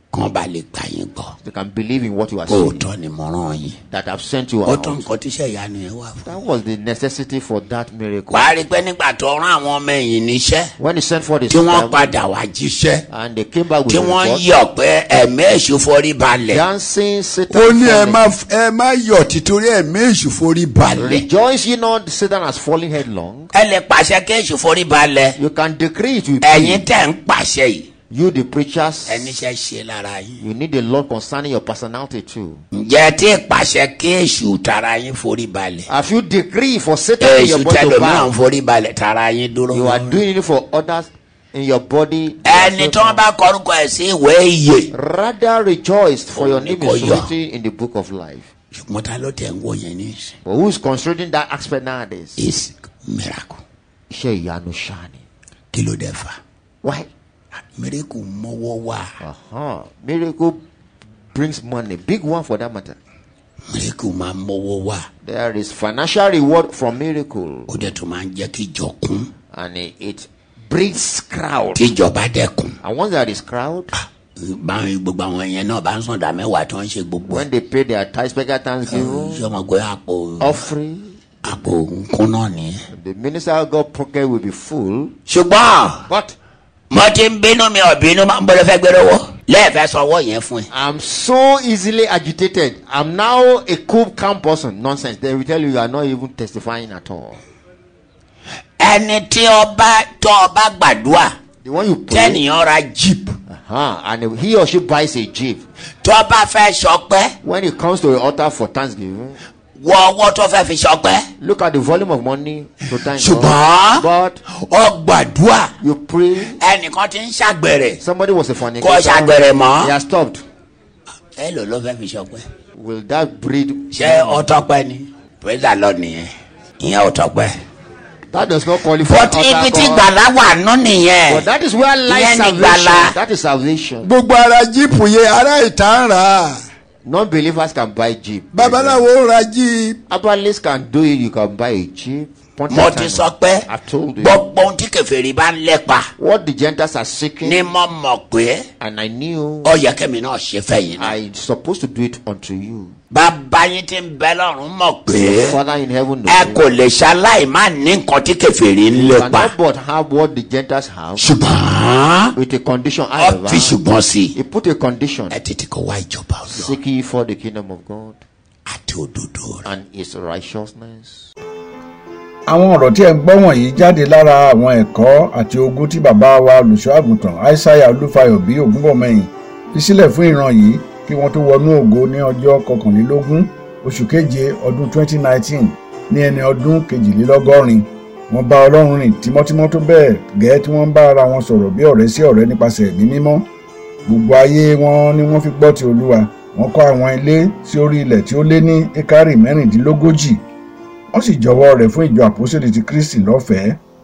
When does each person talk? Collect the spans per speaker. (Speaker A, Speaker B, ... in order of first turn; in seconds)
Speaker A: 0.1-1.3, 2.5-3.8, 4.6-6.3, 8.3-10.7, 11.5-13.0, 13.9-16.6, 17.5-21.2, 23.5-25.4, 26.4-27.9, 29.1-30.4, 32.7-35.9, 37.2-40.2, 42.4-44.9, 46.3-47.3, 48.7-50.4, 52.4-53.6, 55.7-56.4, 57.8-59.2, 63.7-65.1, 67.7-69.3, 71.7-72.8, 73.9-77.5, 78.9-80.6, 81.4-82.8, 85.3-86.1, 86.9-90.7, 98.8-101.3, 102.1-103.4, 106.0-107.3, 109.8-111.3, 113.1-115.7, 116.6-118.0, 118.8-119.9, 121.3-122.5, 123.9-127.6, 129.0-131.5, 132.1-133.2, 134.0-136.6, 138.5-140.0, 142.7-143.7, 144.2-146.1, 147.4-148.6, 149.6-151.2, 153.1-155.6, 156.2-159.5, 161.2-162.3, 163.2-164.3, 165.3-166.8, 168.7-169.7
Speaker B: 1.4-2.9, 3.9-5.1, 6.2-8.5, 10.8-12.1, 13.1-14.5, 16.5-18.2, 20.9-23.5, 25.4-26.9, 28.1-29.3, 30.4-32.6, 35.9-38.3, 39.7-43.2, 44.9-48.5, 50.4-52.5, 54.1-55.2, 56.8-57.1, 59.2-60.6, 61.3-63.0, 65.2-67.9, 69.5-71.9, 72.8-73.9, 77.3-79.5, 80.4-81.2, 82.9-85.1, 86.1-86.3, 90.7-97.4, 101.6-102.4, 103.5-105.6, 107.4-109.4, 111.4-114.4, 115.8-116.6, 118.0-120.4, 122.8-124.6, 128.3-130.1, 131.3-134.1, 137.0-139.1, 140.1-144.5, 146.2-147.7, 148.8-149.8, 151.0-152.9, 155.1-156.7, 158.9-161.4, 162.3-163.8, 164.3-165.4, 166.5-168.2, 169.6-171.3
Speaker C: 172.5-193.4, 194.1-200.4, 201.1-203.8